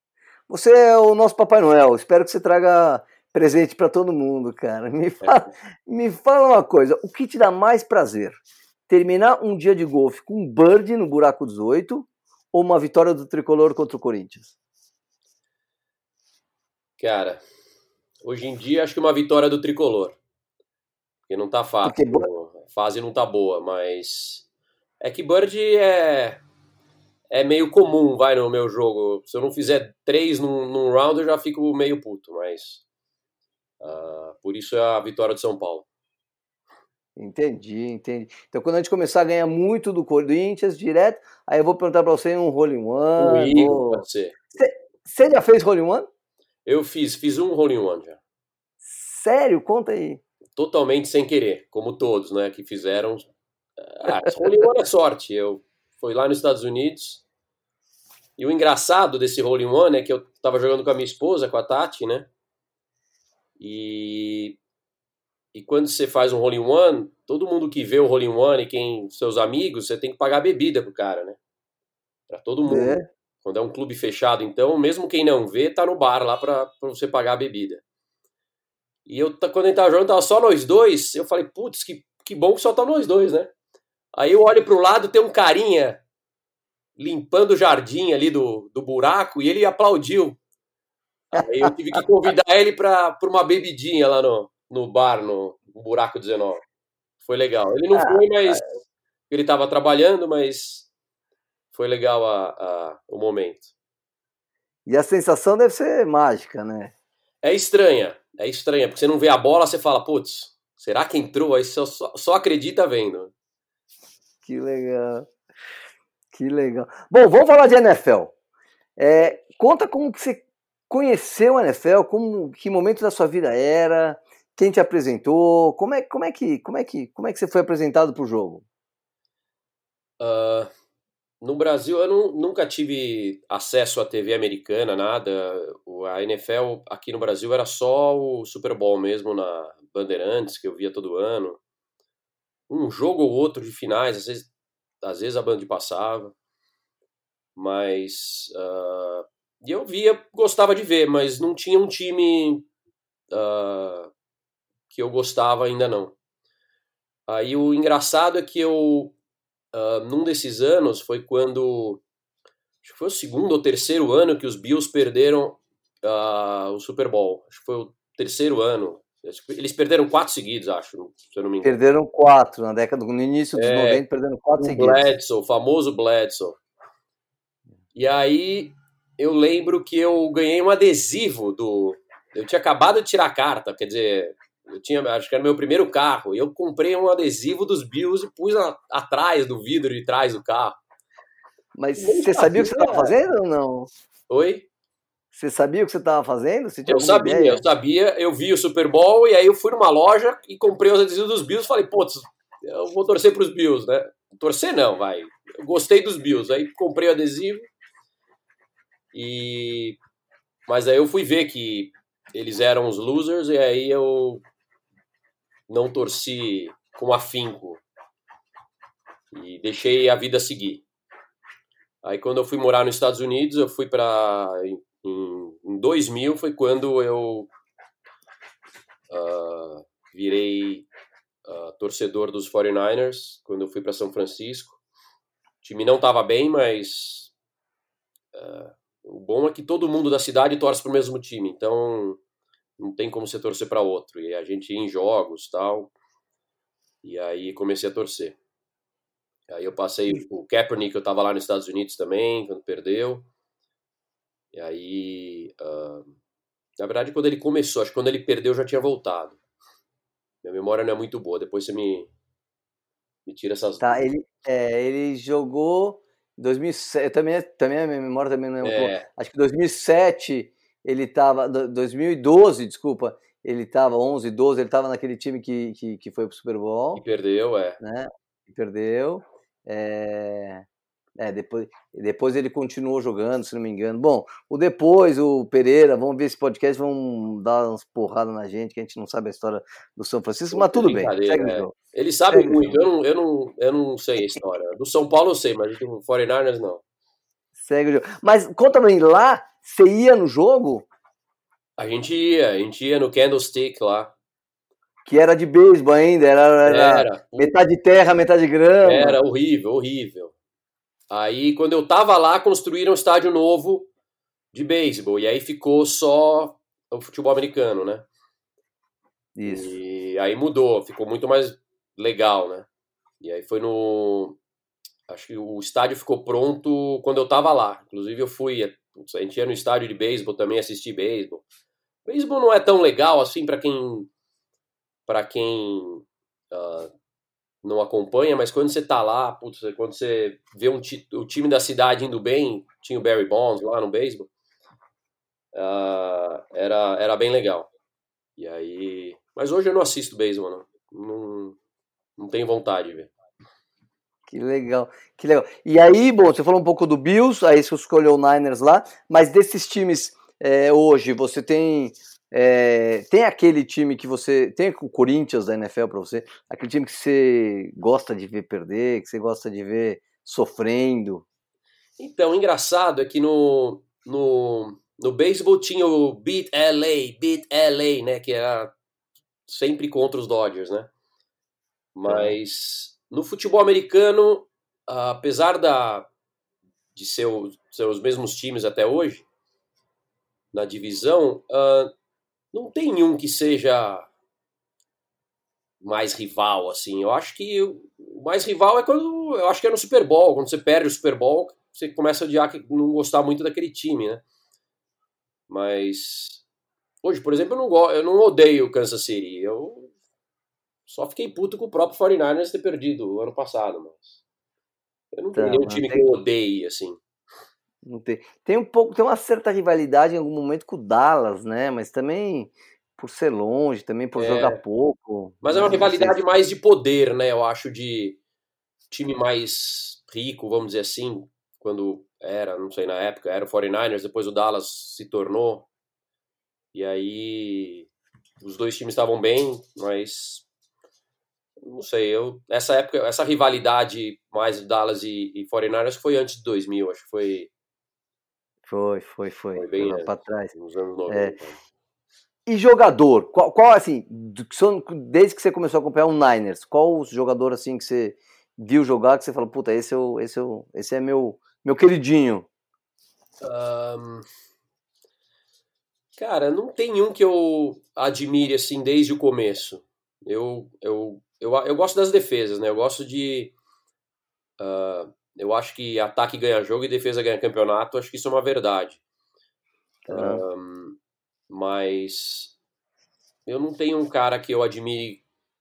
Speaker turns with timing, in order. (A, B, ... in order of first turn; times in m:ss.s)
0:00.5-0:14.5 A
0:17.0-0:17.4 B
0:18.2-0:20.2 B
0:21.3-0:24.4 B
0:21.8-0:22.3 A
0:25.0-0:26.4 B
0:27.3-0:32.8 B
0:33.8-0:35.8 B
0:37.2-0:46.1 A
0:43.2-0:44.3 B
0:46.6-0:48.2 B
0:48.8-0:50.2 A
0:50.6-0:53.3 B
0:53.8-0:57.2 B
0:54.1-0:54.3 A
0:58.4-1:02.3 B
1:03.6-1:04.6 B
1:05.5-1:11.4 B
1:12.3-1:17.8 B
1:12.6-1:13.0 A
1:19.0-1:23.5 B
1:24.1-1:26.0 B
1:27.0-1:30.4 B
1:31.3-1:36.6 B
1:31.4-1:31.7 A
1:37.2-1:38.6 B
1:37.9-1:38.6 A
1:39.3-1:40.9 B
1:41.7-1:43.7 B
1:44.8-1:46.9 A
1:47.4-1:53.3 B
1:54.4-1:55.3 A
1:56.3-1:58.3 A
1:59.0-2:08.6 A
2:10.2-2:10.7 B
2:11.4-2:21.6 B
2:22.7-2:24.5 B
2:25.0-2:26.3 B
2:27.6-2:32.7 B
2:33.3-2:34.1 B
2:34.9-2:36.2 B
2:37.3-2:39.1 B
2:39.7-2:42.0 B
2:42.8-2:51.8 B
2:51.6-2:55.0 A
2:53.5-2:54.0 B
2:54.6-2:56.6 B
2:57.9-3:10.8 B
3:11.7-3:13.9 A
3:12.0-3:13.1 B
3:14.3-3:14.7 B
3:15.3-3:17.6 A
3:16.8-3:27.7 B
3:29.1-3:30.0 B
3:30.7-3:34.4 B
3:35.7-3:37.8 B
3:39.3-3:40.8 B
3:42.0-3:47.5 B
3:49.1-3:50.9 B
3:51.4-3:54.8 B
3:55.6-3:57.3 B
3:58.3-4:02.2 B
4:02.8-4:05.9 B
4:07.0-4:08.4 B
4:09.5-4:13.3 B
4:14.5-4:16.2 B
4:16.8-4:19.4 B
4:20.4-4:22.1 B
4:23.2-4:24.1 B
4:23.8-4:37.0 A
4:28.6-4:29.1 B
4:37.0-4:37.8 B
4:37.8-4:40.6 A
4:41.2-4:51.7 A
4:50.5-4:56.8 B
4:52.3-4:52.8 A
4:57.6-5:00.8 A
5:01.8-5:04.1 B
5:05.0-5:09.2 A
5:06.6-5:07.5 B
5:08.8-5:10.3 B
5:11.1-5:13.9 B
5:14.5-5:18.1 B
5:19.4-5:19.8 A
5:19.4-5:22.7 B
5:23.2-5:24.4 B
5:25.1-5:31.4 B
5:32.0-5:34.1 B
5:35.0-5:36.9 B
5:37.6-5:44.3 B
5:45.5-5:47.7 B
5:48.4-5:51.6 B
5:52.2-5:53.1 B
5:54.3-6:11.2 A
6:12.0-6:18.7 B
6:19.5-6:20.9 B
6:21.9-6:26.1 B
6:22.1-6:22.4 A
6:26.9-6:29.2 B
6:30.5-6:31.9 B
6:32.5-6:34.1 B
6:35.8-6:44.2 B
6:45.5-6:46.4 B
6:47.0-6:49.9 B
6:50.9-6:54.2 B
6:55.1-6:57.0 B
6:55.3-6:56.1 A
6:57.8-7:06.2 A
7:04.1-7:04.6 B
7:05.4-7:08.2 B
7:08.9-7:15.7 B
7:16.7-7:17.9 B
7:18.4-7:20.4 B
7:21.6-7:27.5 B
7:28.6-7:30.5 A
7:29.5-7:31.6 B
7:31.1-7:31.4 A
7:32.4-7:42.5 A
7:43.4-7:44.2 B
7:46.2-7:53.5 B
7:54.6-7:59.0 B
8:00.1-8:00.4 A
8:00.1-8:01.0 B
8:01.5-8:02.5 B
8:03.4-8:05.2 B